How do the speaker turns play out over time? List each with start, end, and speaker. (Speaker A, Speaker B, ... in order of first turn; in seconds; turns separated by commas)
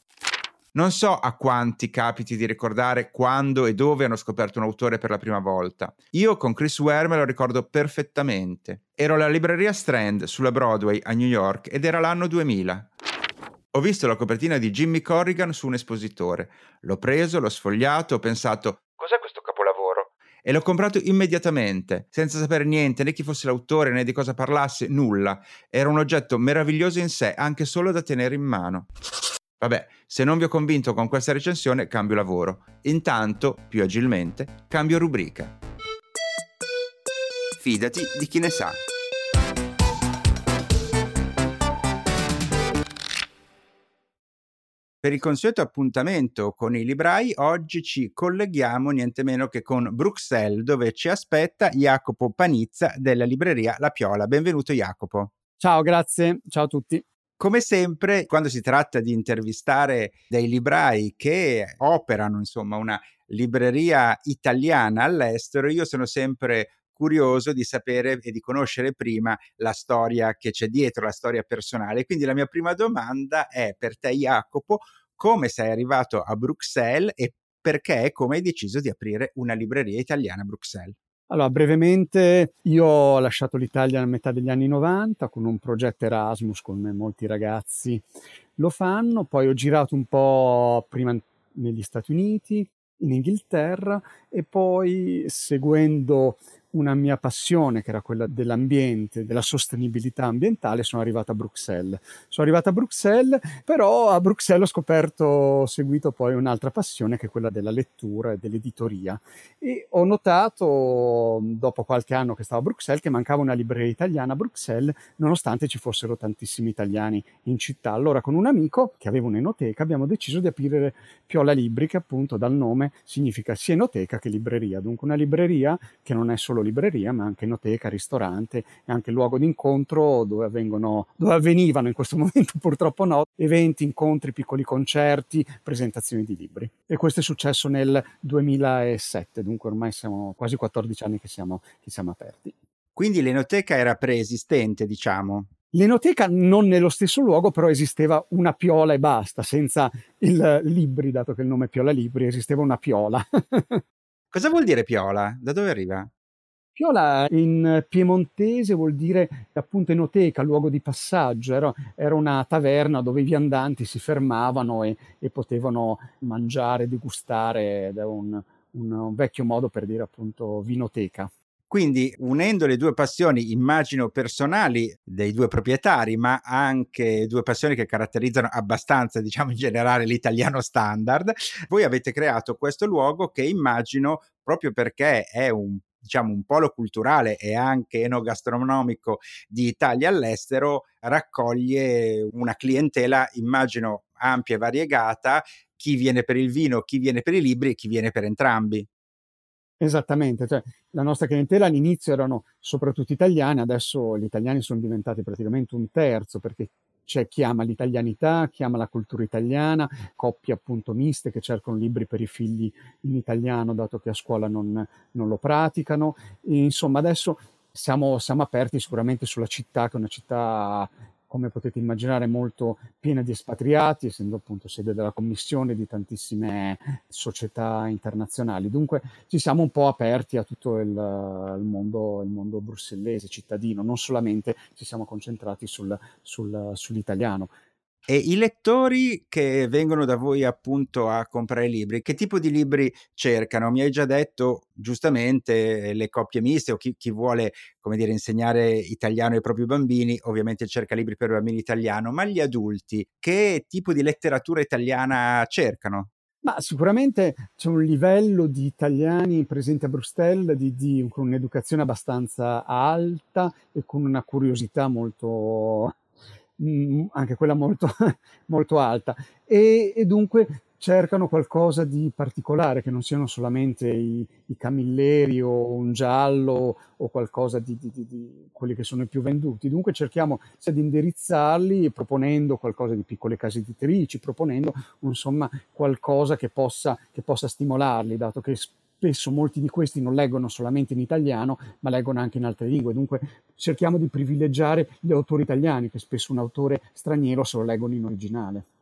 Speaker A: 0.7-12.9, Speaker A: 13.7-28.9, Speaker A: 29.6-35.5, Speaker A: 37.6-38.8, Speaker A: 45.0-55.3, Speaker B: 55.6-57.0, Speaker A: 57.4-81.0, Speaker B: 81.3-88.0, Speaker B: 88.6-142.5, Speaker A: 143.0-145.5, Speaker B: 145.7-153.8, Speaker A: 154.3-156.1, Speaker B: 156.8-171.3, Speaker A: 171.7-198.9, Speaker B: 199.8-237.5, Speaker A: 238.1-256.1, Speaker B: 256.4-266.0, Speaker B: 266.6-298.7